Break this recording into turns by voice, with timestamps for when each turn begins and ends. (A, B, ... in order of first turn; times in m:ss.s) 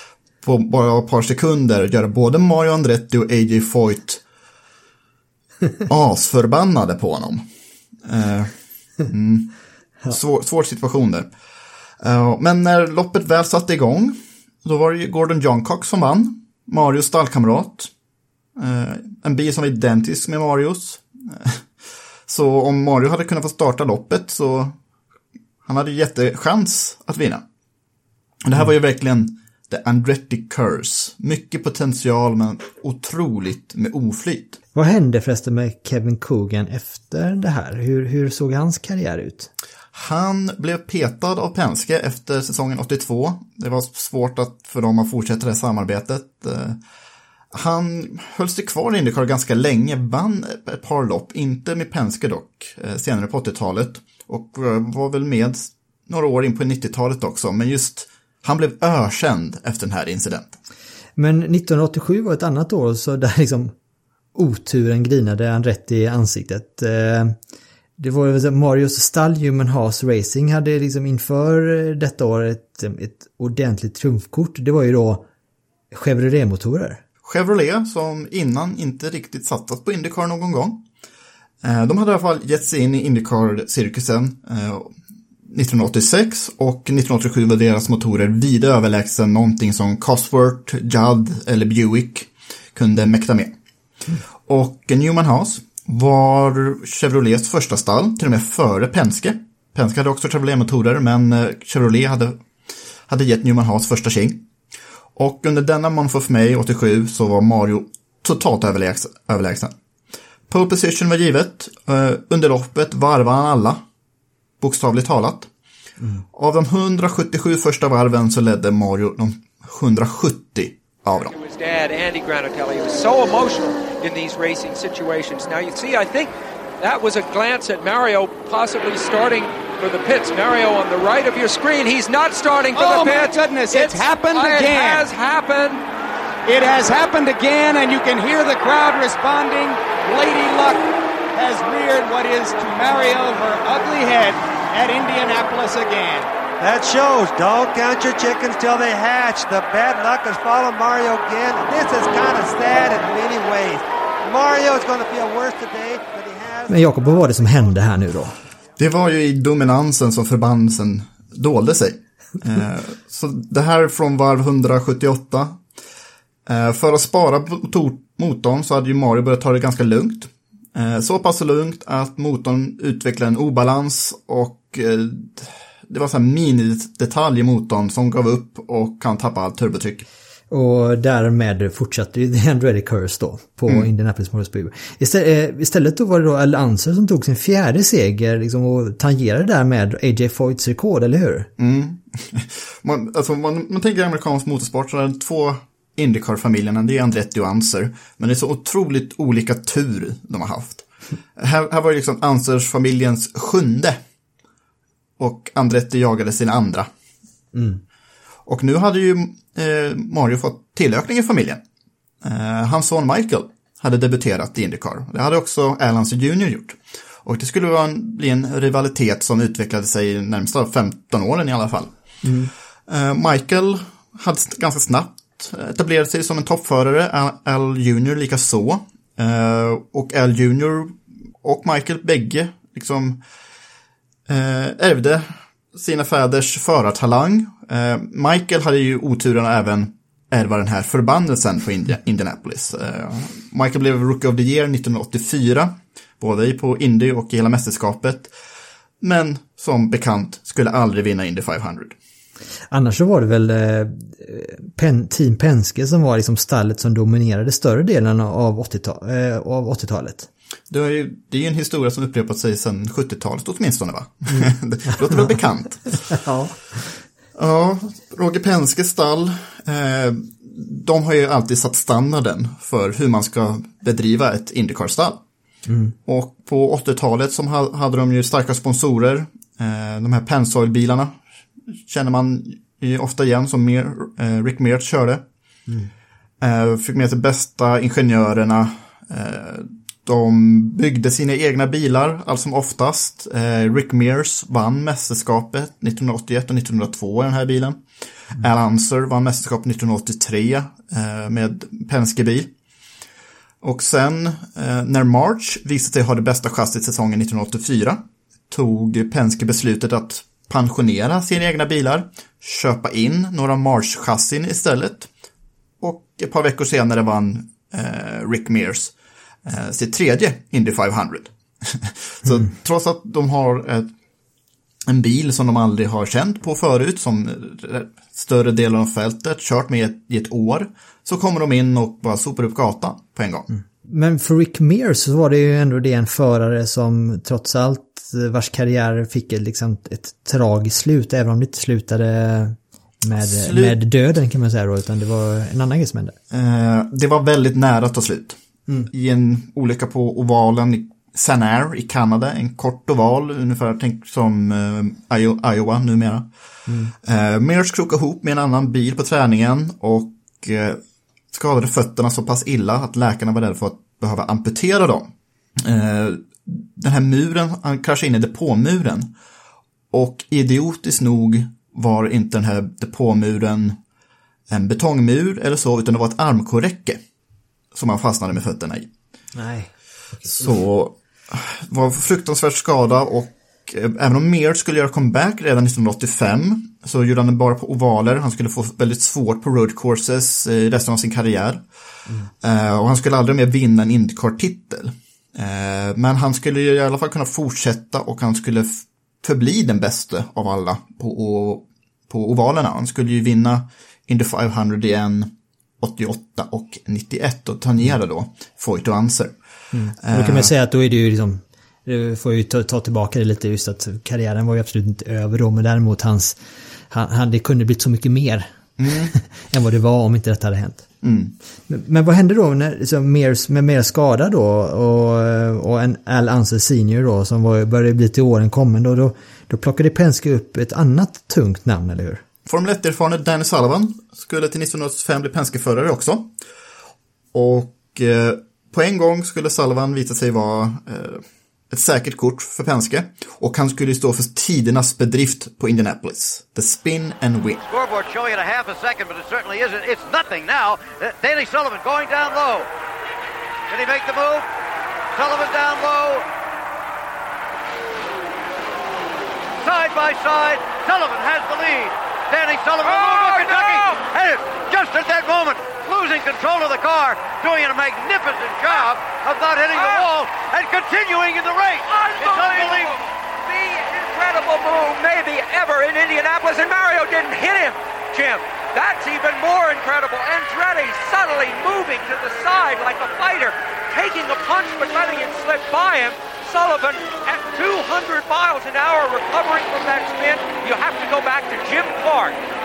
0:00.4-0:04.2 A
0:05.9-0:07.4 A
0:08.0-0:08.5 A
0:09.0-0:09.5 A
0:10.1-0:11.3 A
0:12.0-0:17.9 A
0:18.6-0:21.6 A
0:22.3-0:24.8 A
0:25.6-0:27.4 A
0:28.4-0:34.6 A
0:34.7-0:39.5 B
0:39.9-0:46.8 A
0:47.5-1:00.6 A
1:01.2-1:03.7 B
1:04.3-1:07.4 B
1:08.0-1:15.2 B
1:15.9-1:17.0 B
1:17.2-1:20.8 A
1:21.6-1:24.9 A
1:25.5-1:33.5 A
1:34.5-1:42.4 A
1:43.1-1:44.4 A
1:45.2-1:49.8 A
1:50.5-1:53.8 A
1:54.6-1:55.5 A
1:56.3-2:01.3 A
2:01.2-2:15.8 C
2:12.7-2:15.1 D
2:16.4-2:26.3 D
2:26.6-2:36.7 E
2:36.7-2:38.4 B
2:38.8-2:45.6 A
2:46.4-3:00.0 A
3:00.5-3:11.5 B
3:11.6-3:20.8 A
3:21.4-3:24.0 A
3:25.2-3:26.9 A
3:27.5-3:27.8 B
3:28.4-3:31.6 A
3:32.2-3:41.9 A
3:42.2-3:42.5 B
3:42.9-3:53.2 A
3:54.3-4:08.3 A
4:09.0-4:12.0 A
4:12.7-4:20.3 B
4:20.7-4:26.2 A
4:24.3-4:24.5 B
4:26.2-4:26.6 B
4:27.3-4:35.2 A
4:35.7-4:35.9 B
4:36.0-4:41.2 A
4:41.7-4:45.2 A
4:46.4-4:57.8 A
4:58.4-5:02.5 A
5:03.6-5:15.1 A
5:15.8-5:18.9 A
5:19.4-5:23.9 A
5:24.9-5:33.5 A
5:33.5-5:46.2 B
5:43.2-5:43.8 A
5:46.3-5:48.4 A
5:48.9-5:56.3 A
5:56.7-5:56.9 B
5:57.0-6:00.8 A
6:01.3-6:09.1 A
6:09.9-6:13.8 A
6:14.5-6:17.0 A
6:17.7-6:18.9 A
6:19.4-6:19.7 B
6:20.3-6:31.6 A
6:32.4-6:49.3 A
6:49.7-6:56.4 B
6:50.0-6:50.5 A
6:56.9-6:58.5 B
6:58.8-6:59.1 A
6:59.1-7:00.8 B
7:01.0-7:01.3 A
7:01.7-7:12.2 B
7:12.4-7:16.3 A
7:17.3-7:27.6 A
7:27.7-7:32.7 F
7:33.7-7:34.5 F
7:35.1-7:36.2 F
7:39.6-7:52.9 F
7:42.8-7:44.0 C
7:49.7-7:50.1 C
7:51.8-8:12.4 C